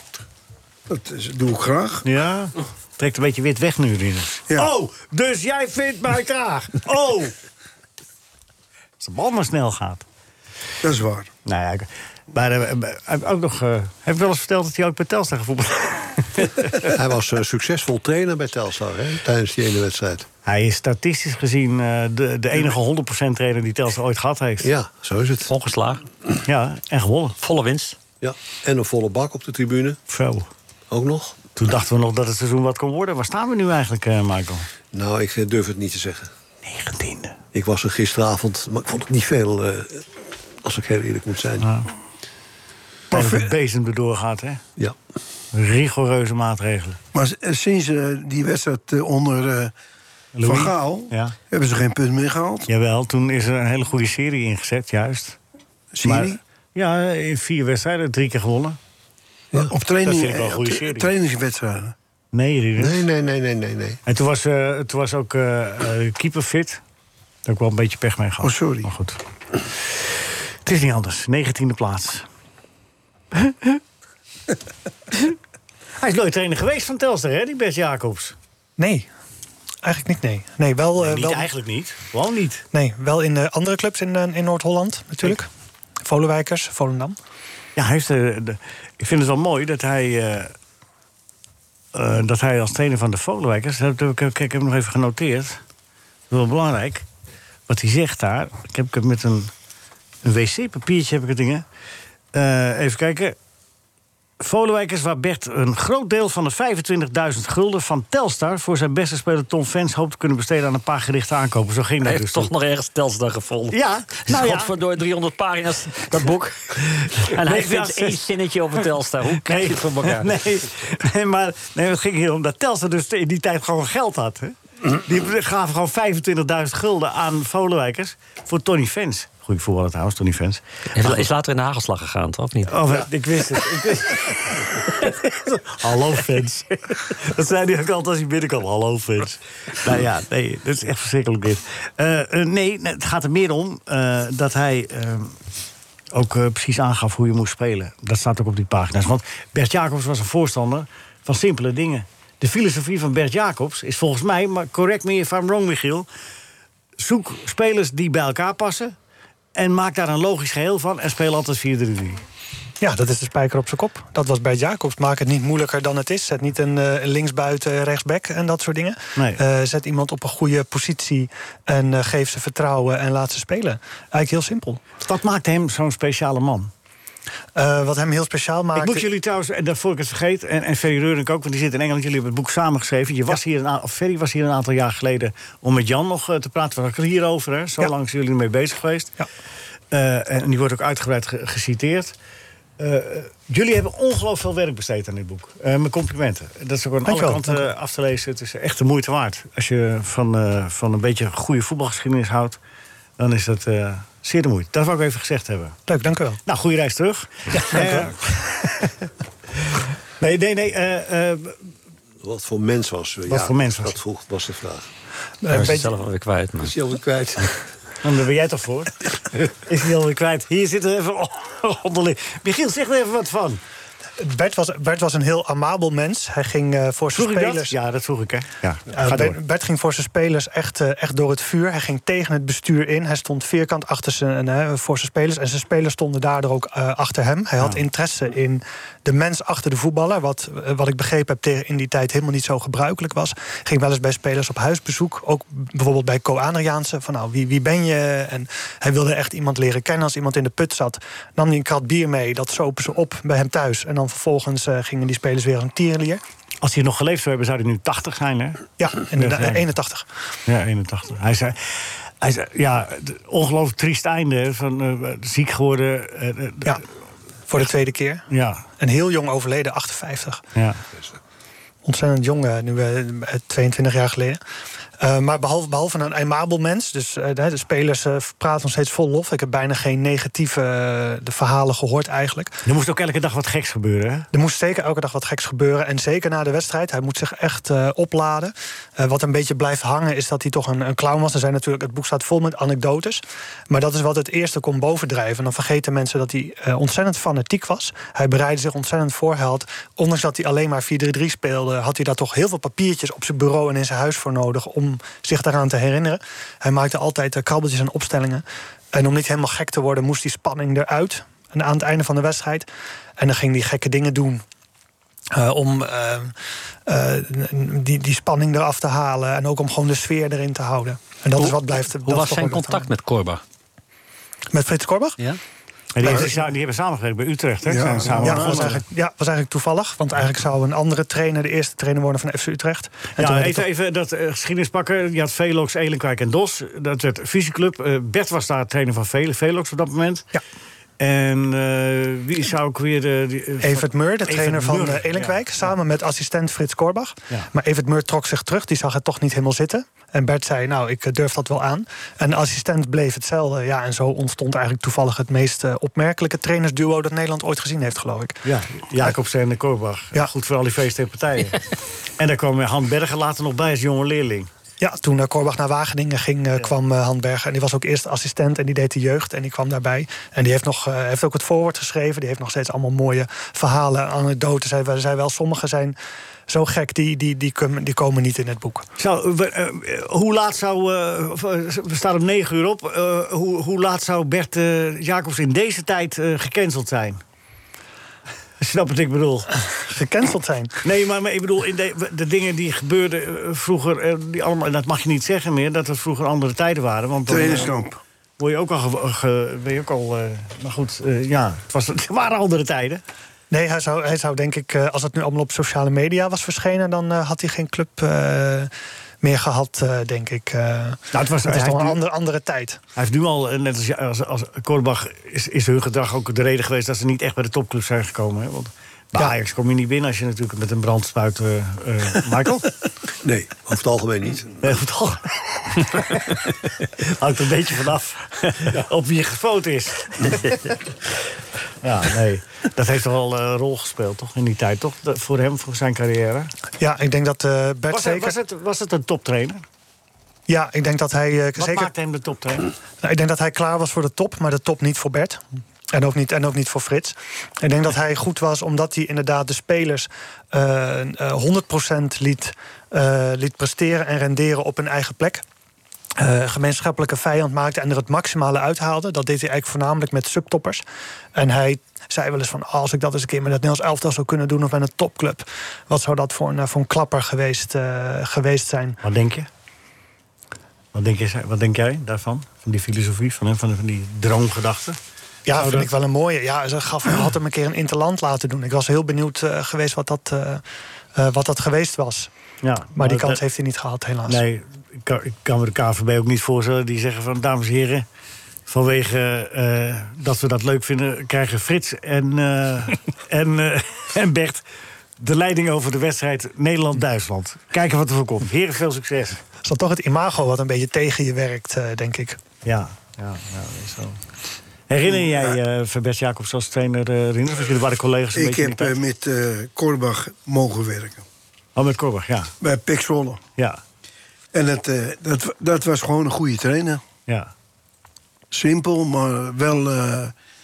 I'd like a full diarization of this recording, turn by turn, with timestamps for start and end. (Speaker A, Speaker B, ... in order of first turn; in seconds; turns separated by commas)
Speaker A: 0.9-2.0, Speaker B: 2.0-7.3, Speaker B: 9.0-10.0, Speaker A: 10.8-11.3, Speaker B: 11.4-16.9, Speaker C: 16.8-20.3, Speaker B: 20.4-24.7, Speaker C: 24.6-25.5, Speaker D: 25.5-26.0, Speaker B: 26.4-27.4, Speaker D: 27.4-28.0, Speaker C: 28.2-30.0, Speaker B: 30.1-30.5, Speaker C: 30.9-31.4, Speaker B: 31.6-34.7, Speaker C: 34.9-36.3, Speaker B: 36.6-37.4, Speaker C: 37.5-40.1, Speaker C: 40.6-41.7, Speaker B: 41.6-41.9, Speaker A: 43.1-43.5, Speaker B: 43.1-44.6, Speaker B: 45.5-47.0, Speaker A: 47.1-49.7, Speaker B: 50.3-51.3, Speaker A: 50.4-52.7, Speaker B: 52.7-55.4, Speaker A: 55.9-56.4, Speaker B: 56.0-58.8, Speaker A: 59.7-61.9, Speaker B: 60.0-61.1, Speaker B: 62.3-63.0, Speaker C: 62.8-64.0, Speaker B: 64.0-66.8, Speaker B: 67.4-69.2, Speaker A: 68.4-68.9, Speaker B: 70.7-72.2, Speaker B: 73.3-73.8, Speaker B: 76.0-78.3, Speaker E: 78.8-79.1, Speaker E: 79.8-81.5, Speaker B: 81.0-82.6, Speaker E: 82.7-85.5, Speaker E: 86.0-87.2, Speaker B: 87.8-90.5, Speaker B: 91.9-95.6, Speaker B: 96.3-97.0, Speaker B: 97.7-99.5, Speaker B: 100.2-101.6, Speaker B: 102.3-103.3, Speaker B: 104.4-112.5, Speaker D: 112.0-120.4, Speaker B: 113.7-114.7, Speaker B: 116.8-118.2, Speaker B: 119.3-131.2, Speaker D: 130.9-133.0, Speaker B: 132.7-145.3, Speaker B: 146.1-156.1, Speaker B: 157.0-158.9, Speaker B: 159.6-162.2, Speaker E: 162.8-174.8, Speaker B: 169.2-169.4, Speaker B: 175.0-176.7, Speaker E: 177.5-179.1, Speaker B: 178.7-189.1, Speaker B: 189.9-192.1, Speaker B: 192.8-202.6, Speaker E: 197.1-197.6, Speaker B: 203.2-205.8, Speaker E: 205.9-206.4, Speaker B: 206.4-208.9, Speaker B: 209.6-211.7, Speaker C: 212.2-214.8, Speaker B: 213.3-214.0, Speaker E: 215.4-215.9, Speaker D: 215.5-216.7, Speaker C: 216.6-217.5, Speaker B: 218.0-219.0, Speaker B: 219.7-223.6, Speaker E: 224.2-227.7, Speaker B: 227.1-229.4, Speaker E: 228.9-256.2, Speaker B: 256.6-259.6, Speaker E: 258.8-260.1, Speaker B: 260.5-266.8, Speaker E: 267.5-268.2, Speaker B: 268.3-268.6, Speaker E: 268.8-270.4, Speaker E: 271.8-274.4, Speaker E: 275.0-282.6, Speaker B: 282.6-284.3, Speaker E: 284.3-312.7, Speaker E: 313.2-314.4, Speaker E: 315.3-316.3, Speaker E: 316.9-322.9, Speaker D: 321.4-323.4, Speaker E: 324.5-325.2, Speaker B: 325.9-328.8, Speaker A: 326.0-326.3, Speaker A: 327.6-328.7, Speaker E: 328.2-333.7, Speaker B: 333.2-340.3, Speaker B: 341.0-345.7, Speaker E: 343.6-358.4, Speaker B: 358.4-361.6, Speaker B: 362.2-364.5, Speaker E: 364.8-375.9, Speaker E: 376.5-378.9, Speaker B: 379.0-387.2, Speaker B: 388.6-389.5, Speaker E: 389.9-390.7, Speaker B: 390.8-397.7, Speaker A: 397.3-398.0, Speaker B: 398.4-403.0, Speaker E: 403.5-408.7, Speaker E: 409.2-412.8, Speaker B: 411.1-412.0, Speaker B: 412.9-422.7, Speaker C: 423.2-424.6, Speaker B: 424.6-426.4, Speaker B: 427.0-430.6, Speaker B: 431.8-436.5, Speaker E: 436.8-438.4, Speaker B: 437.9-439.6, Speaker E: 440.5-441.9, Speaker B: 441.6-442.7, Speaker E: 443.0-455.4, Speaker E: 456.2-460.8, Speaker E: 461.3-469.0, Speaker B: 469.0-469.5, Speaker B: 470.9-475.0, Speaker E: 475.4-480.6, Speaker B: 475.5-475.9, Speaker E: 481.1-482.3, Speaker B: 482.6-483.4, Speaker E: 482.9-484.4, Speaker B: 484.3-488.1, Speaker B: 488.7-494.6, Speaker B: 495.2-499.4, Speaker E: 499.6-502.4, Speaker B: 502.6-504.2, Speaker B: 504.9-508.9, Speaker A: 505.1-505.5, Speaker A: 508.3-511.2, Speaker B: 511.8-512.5, Speaker A: 512.6-513.4, Speaker A: 514.5-517.0, Speaker B: 517.3-517.5, Speaker A: 518.5-520.3